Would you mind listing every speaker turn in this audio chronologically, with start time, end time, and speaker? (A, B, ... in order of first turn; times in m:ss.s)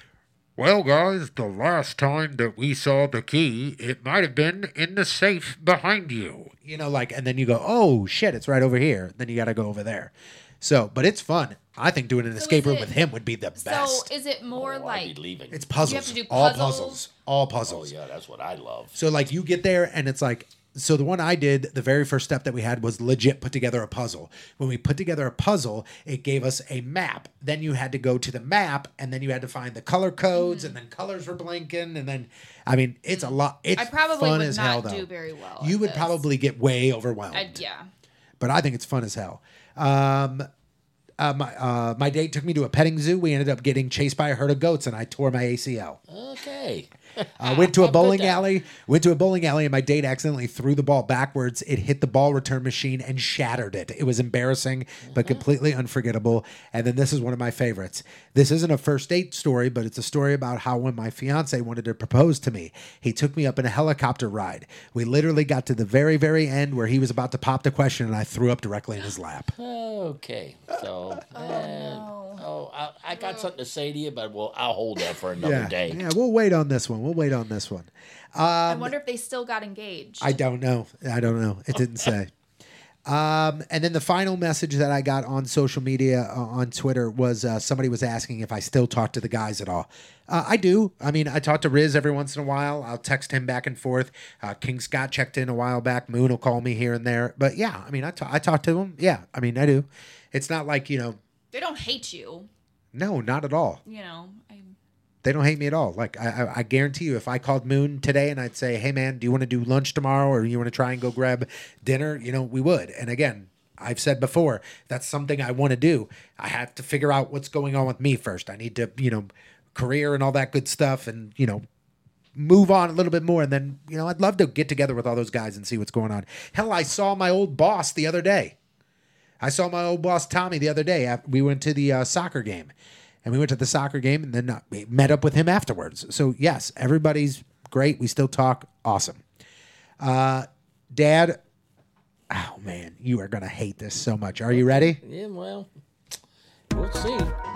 0:00.6-0:14.1 A
0:12.4-0:12.9 B
0:13.6-0:15.1 B
0:14.5-0:15.6 C
0:15.5-0:17.9 A
0:15.8-0:17.0 B
0:17.7-0:19.0 C
0:18.9-0:35.1 A
0:30.3-0:30.8 B
0:33.1-0:36.2 B
0:35.6-0:37.6 A
0:37.3-0:37.9 B
0:38.4-0:40.5 A
0:41.2-0:46.0 A
0:46.1-0:48.4 C
0:47.4-1:09.5 A
0:55.1-0:55.4 C
1:09.6-1:16.0 C
1:11.3-1:12.4 B
1:13.1-1:13.5 B
1:15.4-1:18.9 A
1:18.7-1:20.4 B
1:20.2-1:22.3 A
1:23.0-1:41.2 A
1:41.5-1:42.5 B
1:42.9-1:43.8 A
1:43.8-1:44.8 B
1:45.2-2:01.6 A
2:02.3-2:08.6 A
2:09.4-2:12.7 A
2:13.2-2:19.2 A
2:20.0-2:21.4 A
2:22.3-2:25.0 A
2:24.5-2:25.7 C
2:26.7-2:27.3 C